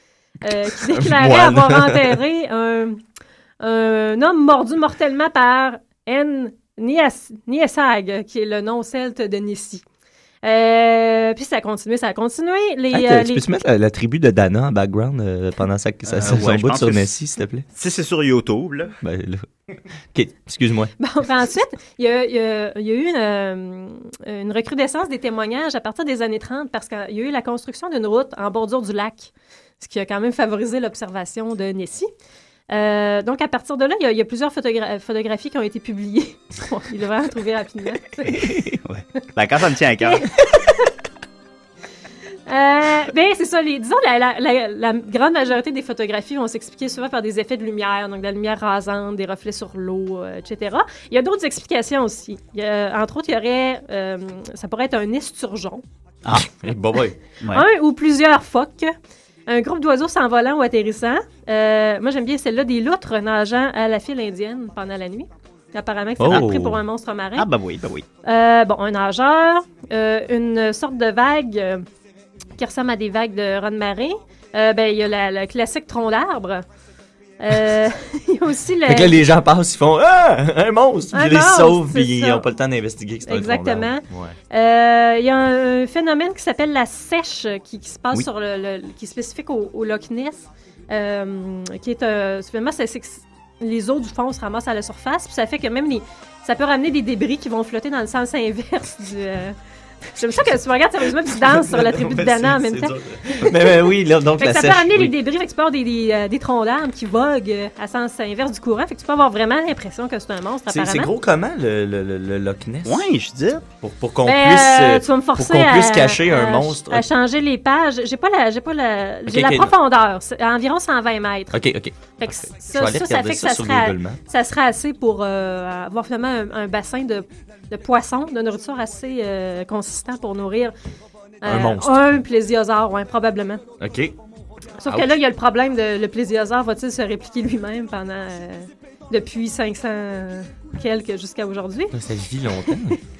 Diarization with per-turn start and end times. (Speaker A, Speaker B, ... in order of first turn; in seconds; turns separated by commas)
Speaker A: 0.4-3.0, Speaker B: 0.8-2.2, Speaker A: 3.6-9.8, Speaker A: 10.4-13.4, Speaker B: 12.9-17.7, Speaker C: 16.1-17.1, Speaker C: 17.7-18.9, Speaker B: 19.0-19.5, Speaker B: 20.1-20.9, Speaker A: 21.0-32.1, Speaker A: 32.7-38.5, Speaker C: 38.8-40.3, Speaker A: 40.0-40.9, Speaker A: 42.5-55.8, Speaker B: 56.3-57.1, Speaker A: 57.5-58.9, Speaker A: 59.5-67.5, Speaker B: 66.2-66.8, Speaker C: 67.4-68.1, Speaker A: 68.2-71.8, Speaker A: 72.6-76.6, Speaker A: 77.4-79.2, Speaker B: 78.8-84.3, Speaker A: 81.1-82.5, Speaker A: 83.2-99.5, Speaker A: 100.1-111.1, Speaker B: 101.4-105.1, Speaker B: 110.7-113.0, Speaker C: 112.8-113.6, Speaker B: 113.8-117.0, Speaker A: 114.2-121.6, Speaker B: 119.3-119.7, Speaker B: 121.5-124.2, Speaker A: 122.2-130.7, Speaker A: 131.4-133.6, Speaker B: 131.4-132.1, Speaker B: 133.8-134.1, Speaker A: 134.8-141.9, Speaker B: 141.9-143.0